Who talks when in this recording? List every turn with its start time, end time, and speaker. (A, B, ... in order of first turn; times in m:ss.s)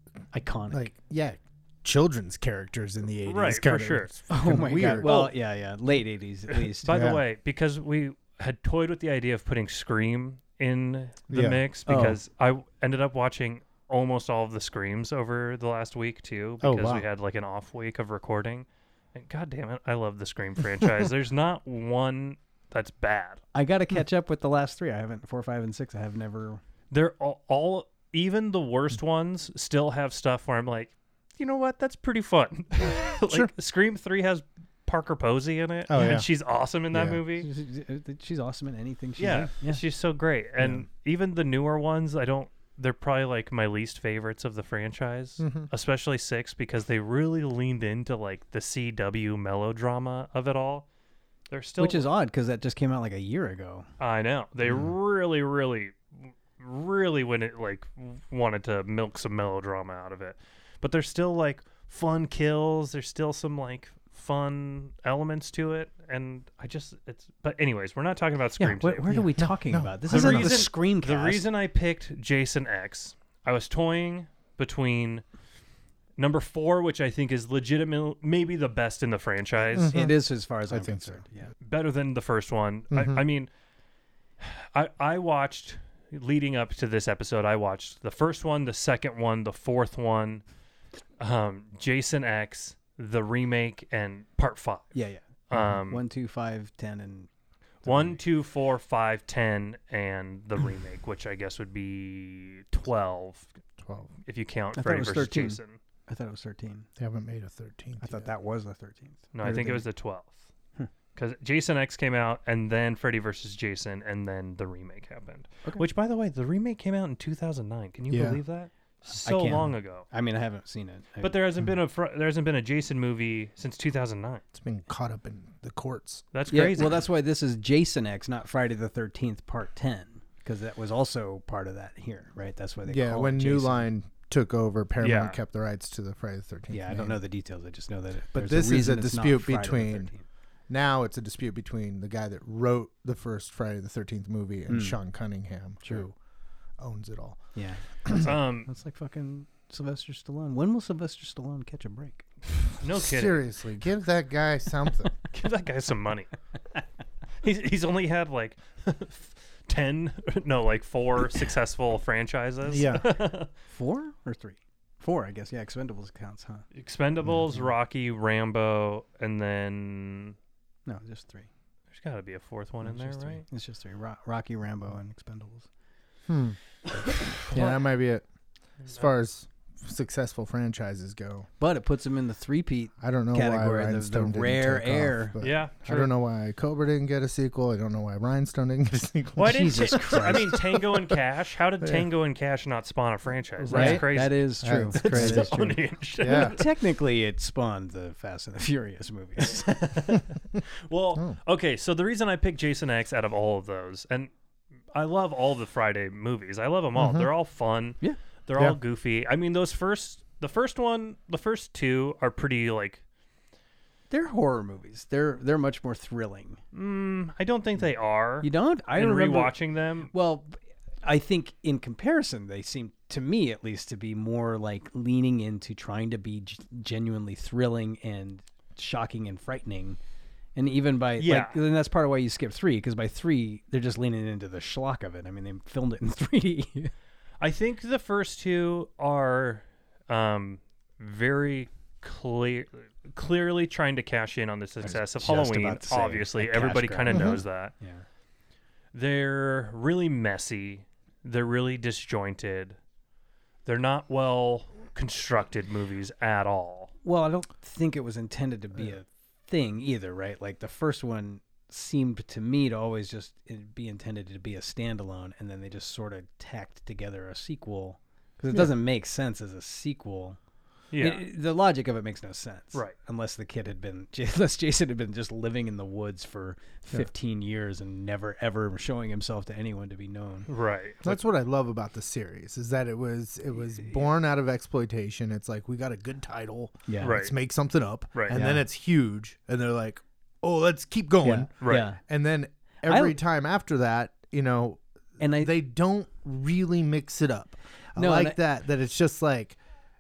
0:00.3-0:00.9 A
0:00.7-0:05.3 B
0:03.3-0:05.3 C
0:04.3-0:07.0 A
0:06.5-0:23.4 C
0:06.9-0:07.2 B
0:11.3-0:12.2 B
0:11.9-0:12.2 A
0:16.6-0:17.0 B
0:23.5-0:26.6 A
0:26.9-0:37.5 C
0:32.8-0:33.5 B
0:35.9-0:36.3 B
0:36.9-0:37.2 B
0:37.4-0:39.8 A
0:39.2-0:50.9 C
0:40.6-0:40.9 B
0:45.4-0:45.7 B
0:51.5-0:52.1 C
0:51.8-0:53.9 A
0:54.0-1:09.2 C
1:08.6-1:11.4 A
1:09.1-1:10.7 B
1:10.1-1:15.2 C
1:16.2-1:19.9 C
1:19.8-1:20.2 B
1:19.8-1:21.5 A
1:20.7-1:21.2 B
1:21.6-1:23.5 C
1:22.9-1:23.2 B
1:24.4-1:30.4 C
1:31.2-1:35.0 C
1:34.9-1:35.2 A
1:35.5-1:36.0 C
1:35.9-1:37.3 A
1:37.9-1:38.2 A
1:37.9-1:43.5 C
1:43.8-1:44.1 B
1:44.3-1:45.8 C
1:44.7-1:46.9 A
1:47.0-1:48.3 B
1:48.0-1:49.2 A
1:49.3-1:50.5 C
1:49.4-1:49.8 B
1:51.1-2:00.1 C
1:58.1-1:58.4 B
1:59.2-2:01.4 A
2:01.2-2:04.4 C
2:04.6-2:06.2 B
2:06.3-2:07.0 C
2:06.5-2:13.9 A
2:12.9-2:17.2 B
2:15.0-2:15.4 C
2:16.7-2:20.2 A
2:18.3-2:20.1 B
2:20.7-2:26.1 B
2:24.7-2:25.0 A
2:25.8-2:26.1 A
2:26.8-2:27.5 B
2:27.6-2:32.3 A
2:28.2-2:28.7 C
2:32.8-2:33.4 C
2:32.9-2:35.1 B
2:35.3-2:36.3 C
2:37.4-2:43.5 C
2:42.7-2:43.2 B
2:43.7-2:46.6 A
2:46.7-2:50.4 C
2:50.9-2:51.5 A
2:51.9-2:53.4 C
2:52.8-2:55.7 A
2:56.3-2:56.6 B
2:57.1-2:57.9 C
2:57.5-2:58.2 B
2:58.9-3:01.5 B
3:01.6-3:05.4 A
3:03.0-3:10.8 B
3:05.4-3:06.1 C
3:09.4-3:16.6 C
3:09.4-3:10.5 A
3:13.6-3:16.6 B
3:13.7-3:15.7 A
3:16.2-3:19.7 A
3:19.5-3:24.3 C
3:24.9-3:33.0 C
3:27.0-3:27.3 B
3:34.1-3:36.6 A
3:36.7-3:40.1 C
3:38.4-3:39.5 A
3:40.1-3:40.5 A
3:41.0-3:50.0 A
3:50.6-3:56.9 A
3:51.2-3:51.6 C
3:57.4-4:07.8 C
4:04.8-4:08.0 A
4:07.1-4:07.4 B
4:08.9-4:12.8 C
4:13.7-4:16.9 C
4:17.0-4:30.4 A
4:30.9-4:31.2 C
4:31.0-4:40.5 A
4:40.5-4:41.2 C
4:41.0-4:54.8 B
4:46.9-4:47.2 A
4:47.0-4:47.3 C
4:48.1-4:48.4 C
4:48.3-4:48.6 A
4:51.2-4:52.0 A
4:51.6-4:51.9 C
4:52.9-4:53.2 A
4:55.2-4:55.5 A
4:55.3-4:59.6 B
4:58.0-4:58.4 A